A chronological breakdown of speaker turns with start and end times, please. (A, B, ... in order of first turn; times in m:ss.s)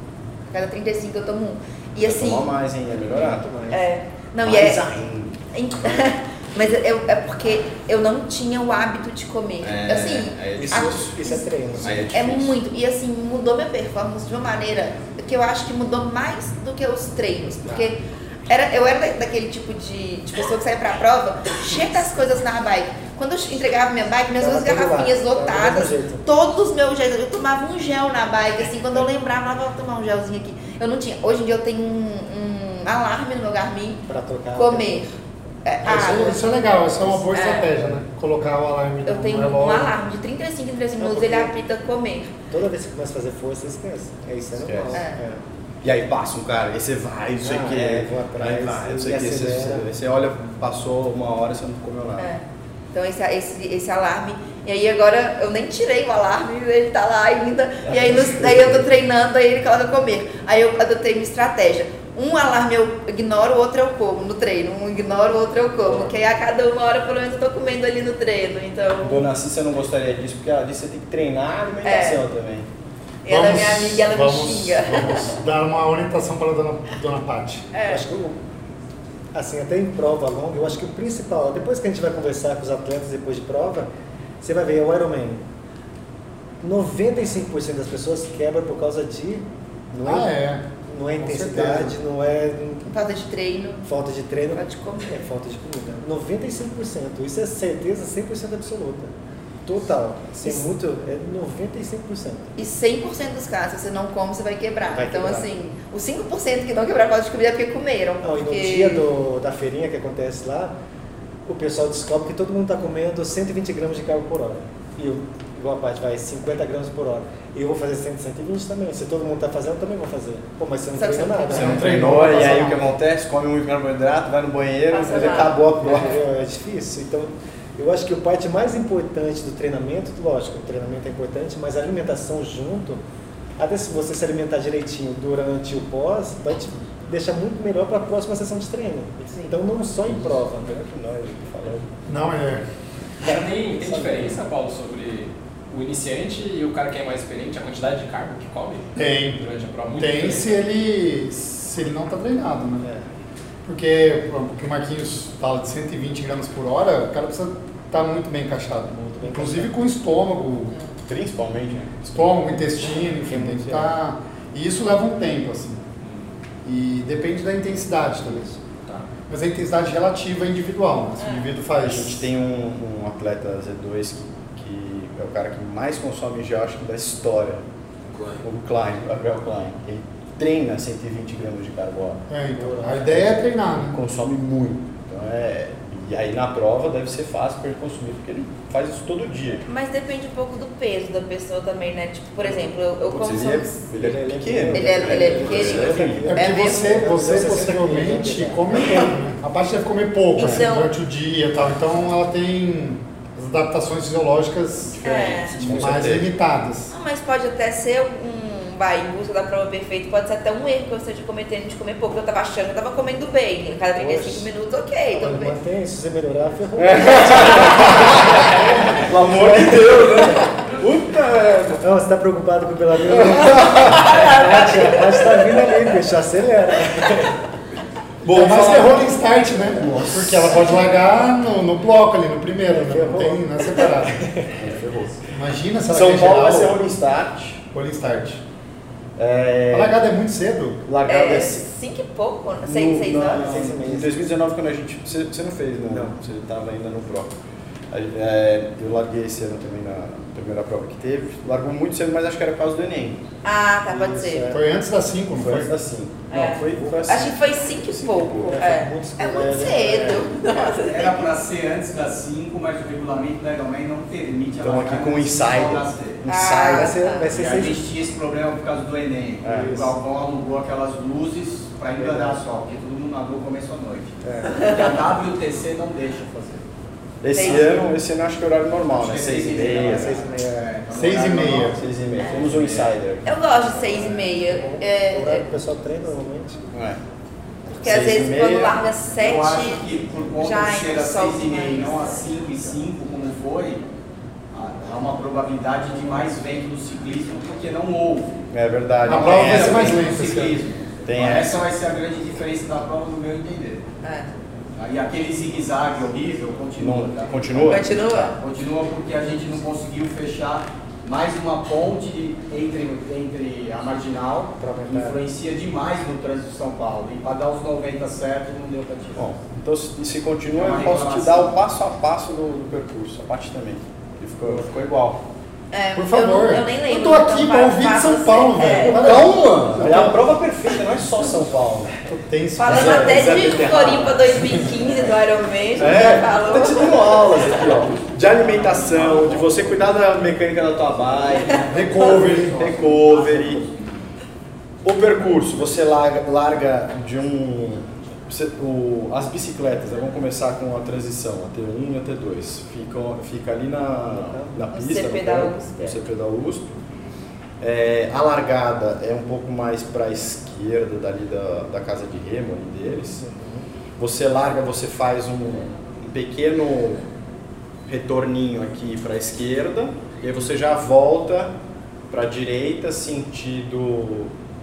0:00.5-0:02.5 A
0:02.0-0:03.5 B
0:02.9-0:03.8 C
0:03.7-0:04.8 A
0:04.4-0:05.4 B
0:05.5-0:11.4 A
0:09.6-0:12.6 B
0:10.6-0:12.1 C
0:12.1-0:34.0 A
0:17.6-0:17.9 C
0:24.4-0:26.2 C
0:34.1-0:35.0 C
0:34.6-0:35.1 A
0:35.6-0:36.4 A
0:35.8-0:39.9 D
0:35.9-0:37.9 C
0:37.3-0:37.7 A
0:39.0-0:42.3 A
0:41.0-0:41.5 C
0:42.5-0:45.4 C
0:44.6-0:45.0 B
0:44.9-0:45.2 A
0:45.8-0:52.3 B
0:47.4-0:49.8 C
0:52.2-1:09.3 A
0:57.9-0:58.7 B
0:58.2-0:58.7 C
1:05.8-1:06.1 B
1:09.0-1:12.7 B
1:11.8-1:12.2 A
1:13.2-1:15.3 A
1:13.3-1:17.7 D
1:17.7-1:18.0 A
1:17.8-1:18.4 C
1:19.3-1:23.9 C
1:24.4-1:25.4 C
1:26.6-1:30.3 C
1:30.0-1:31.9 D
1:30.8-1:32.9 C
1:32.9-1:33.9 A
1:33.8-1:39.1 C
1:34.5-1:35.2 A
1:39.6-1:42.5 C
1:42.6-1:49.0 A
1:44.9-1:45.5 C
1:48.2-1:50.7 C
1:51.4-2:02.6 C
2:01.0-2:01.9 A
2:01.5-2:03.0 D
2:01.5-2:06.2 B
2:04.9-2:05.6 A
2:05.2-2:13.0 C
2:13.6-2:20.8 C
2:20.0-2:21.9 B
2:22.1-2:22.6 D
2:23.2-2:30.5 E
2:23.3-2:24.1 C
2:29.0-2:32.9 D
2:33.7-2:40.7 D
2:38.9-2:39.7 C
2:41.1-2:42.0 B
2:42.0-2:45.8 D
2:43.3-2:43.9 C
2:46.6-2:48.5 D
2:49.3-2:52.2 D
2:51.2-2:51.5 A
2:51.8-2:57.6 B
2:58.4-3:02.2 B
3:02.3-3:04.0 D
3:02.6-3:03.3 C
3:03.7-3:09.7 B
3:09.7-3:13.8 A
3:13.0-3:16.3 B
3:14.0-3:19.1 C
3:14.7-3:16.9 A
3:16.2-3:26.9 D
3:20.3-3:20.9 A
3:25.0-3:26.3 B
3:25.0-3:25.6 A
3:26.9-3:35.6 A
3:34.0-3:34.5 C
3:35.1-3:40.4 C
3:36.8-3:41.8 B
3:41.8-3:47.4 C
3:43.1-3:44.5 B
3:44.0-3:44.4 A
3:48.2-3:49.1 B
3:48.2-3:54.2 D
3:49.9-3:50.5 B
3:52.7-3:54.5 C
3:54.6-3:55.2 B
3:55.3-3:56.8 D
3:55.9-3:57.6 B
3:57.7-3:58.4 D
3:59.2-4:00.0 B
3:59.7-4:00.8 D
4:00.9-4:01.6 B
4:01.0-4:03.5 A
4:02.6-4:07.4 B
4:03.3-4:04.1 C
4:07.9-4:13.2 B
4:13.4-4:14.5 A
4:13.9-4:14.6 C
4:14.5-4:15.7 D
4:15.4-4:18.8 B
4:16.3-4:21.2 A
4:16.4-4:17.3 C
4:18.4-4:20.4 C
4:19.7-4:26.2 F
4:24.6-4:27.2 B
4:26.3-4:27.3 A
4:26.6-4:27.8 C
4:27.3-4:36.7 F
4:29.4-4:29.9 B
4:29.4-4:30.0 C
4:32.0-4:32.3 B
4:34.2-4:35.0 C
4:34.6-4:34.9 A
4:37.2-4:40.2 B
4:37.3-4:37.8 A
4:38.9-4:42.9 F
4:39.9-4:40.7 C
4:40.9-4:41.7 D
4:41.5-4:43.4 B
4:42.2-4:42.6 A
4:43.2-4:45.4 A
4:43.7-4:46.6 C
4:46.7-4:47.0 B
4:47.7-4:52.1 A
4:47.8-4:48.8 B
4:49.2-4:53.9 F
4:54.5-4:58.5 F
4:58.5-5:00.3 B
4:59.0-5:00.6 D
4:59.1-5:03.8 F
5:01.0-5:01.6 B
5:04.0-5:04.3 A
5:04.8-5:19.4 F
5:06.8-5:08.3 B
5:07.6-5:08.4 A
5:14.6-5:15.2 C
5:19.1-5:25.2 B
5:20.5-5:21.6 F
5:25.7-5:29.3 A
5:26.0-5:30.3 D
5:28.9-5:31.9 B
5:32.0-5:34.7 D
5:32.6-5:37.3 A
5:32.7-5:34.1 B
5:35.8-5:43.6 B
5:36.9-5:39.9 F
5:40.7-5:44.0 F
5:41.7-5:42.6 D
5:44.8-5:56.7 B
5:54.3-5:54.6 C
5:54.7-5:56.0 A
5:57.6-6:03.3 B
6:03.0-6:03.7 C
6:04.0-6:07.0 B
6:07.9-6:11.5 B
6:12.1-6:14.3 B